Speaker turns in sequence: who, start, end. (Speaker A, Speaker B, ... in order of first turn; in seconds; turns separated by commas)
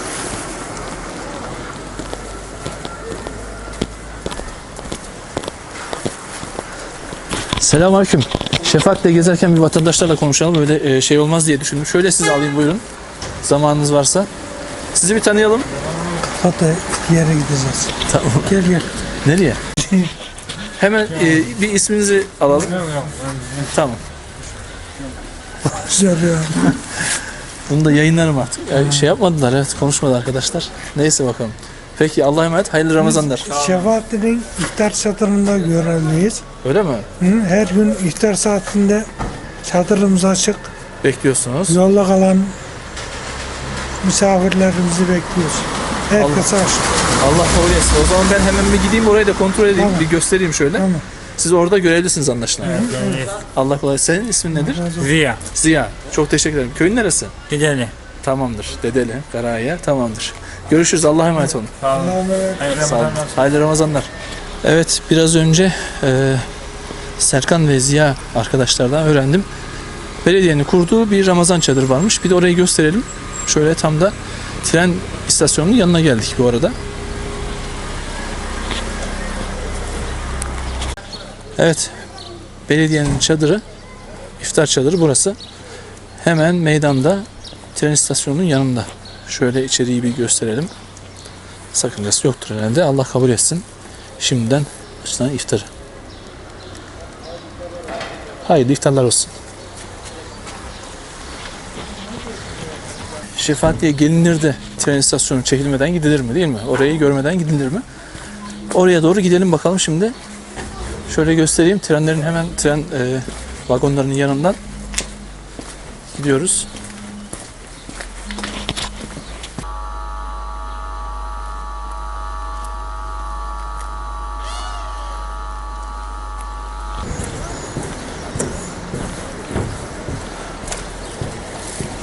Speaker A: 7.6-12.8, Speaker A: 13.4-14.3, Speaker A: 14.9-15.7, Speaker B: 16.4-17.9, Speaker A: 18.1-18.6, Speaker B: 18.4-18.9, Speaker A: 19.2-19.6, Speaker B: 19.8-20.1, Speaker A: 20.8-22.8, Speaker A: 23.7-24.0, Speaker B: 25.7-26.8, Speaker A: 27.7-33.5, Speaker B: 33.0-36.4, Speaker A: 36.6-37.0, Speaker B: 37.2-39.1, Speaker B: 39.6-40.7, Speaker A: 41.0-41.8, Speaker B: 41.7-42.5, Speaker B: 44.0-46.9, Speaker A: 46.1-52.9, Speaker B: 49.7-50.1, Speaker B: 50.7-51.0, Speaker B: 52.6-53.3, Speaker C: 52.9-53.3, Speaker A: 53.5-54.9, Speaker B: 54.5-55.1, Speaker C: 55.0-55.4, Speaker A: 55.5-57.3, Speaker C: 57.5-57.9, Speaker A: 58.2-61.7, Speaker B: 61.9-62.8, Speaker C: 62.6-63.4, Speaker A: 62.7-64.1, Speaker A: 64.6-66.5, Speaker A: 67.2-69.5, Speaker A: 70.2-76.7, Speaker A: 81.6-81.9, Speaker A: 82.7-83.6, Speaker A: 84.4-85.4, Speaker A: 86.2-90.7, Speaker A: 91.7-93.6, Speaker A: 94.2-95.7, Speaker A: 98.4-99.3, Speaker A: 103.3-107.8, Speaker A: 108.7-110.1, Speaker A: 111.1-114.6, Speaker A: 116.1-116.7